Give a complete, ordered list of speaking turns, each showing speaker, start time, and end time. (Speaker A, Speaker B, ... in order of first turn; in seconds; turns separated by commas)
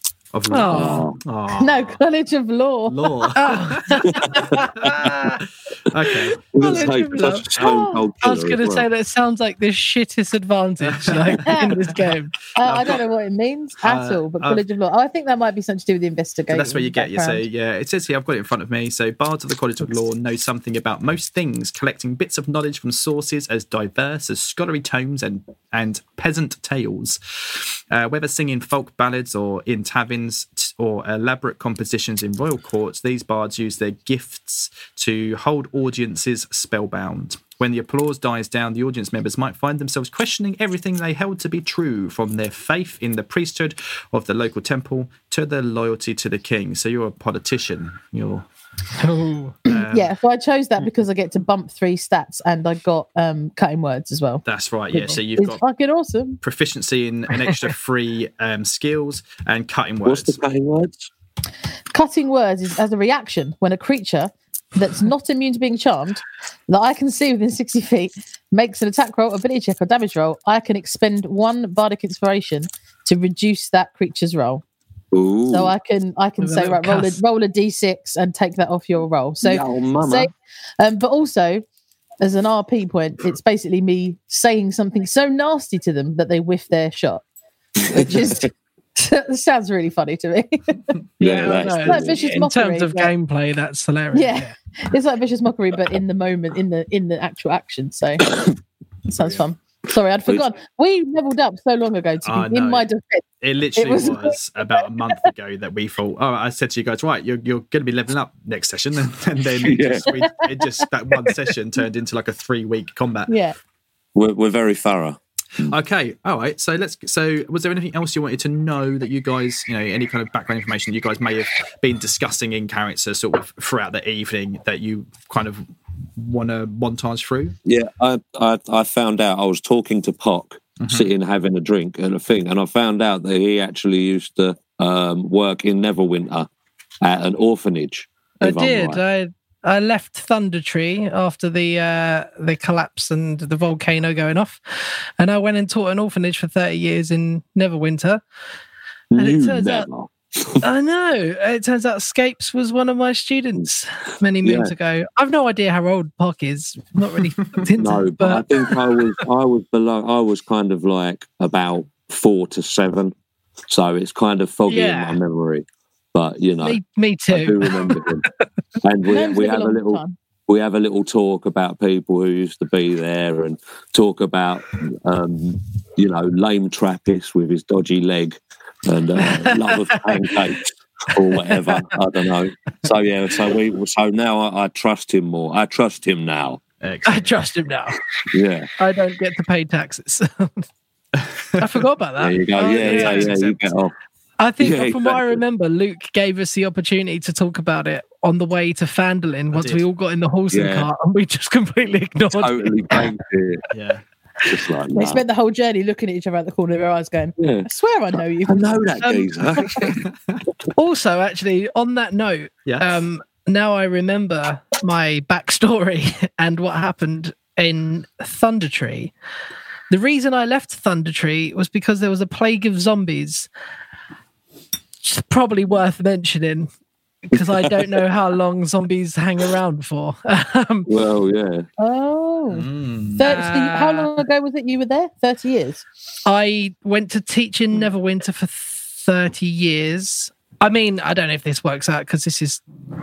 Speaker A: 0.3-2.0, Speaker B: 0.5-1.1, Speaker C: 0.7-1.2, Speaker D: 1.6-3.1, Speaker A: 2.9-6.4, Speaker B: 3.4-5.4, Speaker C: 4.0-5.1, Speaker B: 6.5-12.3, Speaker C: 6.5-8.9, Speaker D: 7.6-8.0, Speaker A: 10.9-12.0, Speaker D: 11.4-11.7, Speaker D: 12.6-17.4, Speaker A: 12.6-13.0, Speaker A: 13.8-14.6, Speaker A: 16.5-48.5, Speaker B: 49.0-49.6, Speaker A: 49.7-50.1, Speaker D: 49.8-56.4, Speaker A: 54.5-55.6, Speaker A: 56.4-60.4, Speaker C: 60.0-61.1, Speaker D: 61.9-74.6, Speaker C: 75.1-75.7, Speaker D: 75.5-81.6, Speaker B: 76.4-77.2, Speaker C: 79.4-80.3, Speaker D: 82.2-87.2, Speaker C: 87.8-88.4, Speaker D: 87.9-93.1, Speaker C: 91.2-92.4, Speaker B: 91.2-94.5, Speaker D: 94.1-98.4, Speaker A: 99.1-99.5, Speaker D: 99.1-103.2, Speaker A: 102.2-102.9, Speaker A: 103.4-113.3, Speaker D: 103.8-104.8, Speaker C: 109.6-110.1, Speaker D: 110.1-110.7, Speaker D: 113.3-113.5, Speaker C: 114.2-115.8, Speaker A: 115.7-127.6, Speaker C: 127.7-136.5, Speaker A: 130.8-131.1, Speaker C: 137.0-139.0, Speaker B: 138.4-148.2, Speaker C: 149.1-150.6, Speaker B: 149.2-149.9, Speaker B: 150.6-158.8, Speaker C: 154.4-154.7, Speaker C: 157.8-163.1, Speaker C: 163.7-168.2, Speaker B: 164.7-165.2, Speaker B: 166.6-168.3, Speaker C: 168.8-186.6, Speaker D: 169.1-170.2, Speaker B: 179.2-180.4, Speaker B: 181.4-181.9, Speaker A: 186.8-187.4, Speaker B: 187.1-188.0, Speaker C: 188.3-188.7, Speaker B: 188.8-190.7, Speaker A: 191.2-191.8, Speaker B: 191.6-193.3, Speaker C: 192.2-193.9, Speaker A: 192.7-193.7, Speaker B: 194.4-203.1, Speaker C: 194.6-195.4, Speaker A: 199.5-199.8, Speaker C: 200.5-200.9, Speaker C: 202.3-203.6, Speaker A: 203.7-204.0, Speaker C: 204.5-205.2, Speaker D: 204.9-209.3, Speaker C: 207.4-207.7, Speaker C: 208.5-210.0, Speaker B: 210.8-219.1, Speaker A: 212.7-212.9, Speaker B: 219.9-223.5, Speaker B: 225.0-226.7, Speaker B: 227.2-230.9, Speaker C: 227.3-227.9, Speaker C: 230.9-231.7, Speaker D: 231.8-232.7, Speaker A: 232.5-233.2, Speaker D: 233.2-235.8, Speaker B: 233.2-234.1, Speaker B: 236.2-242.6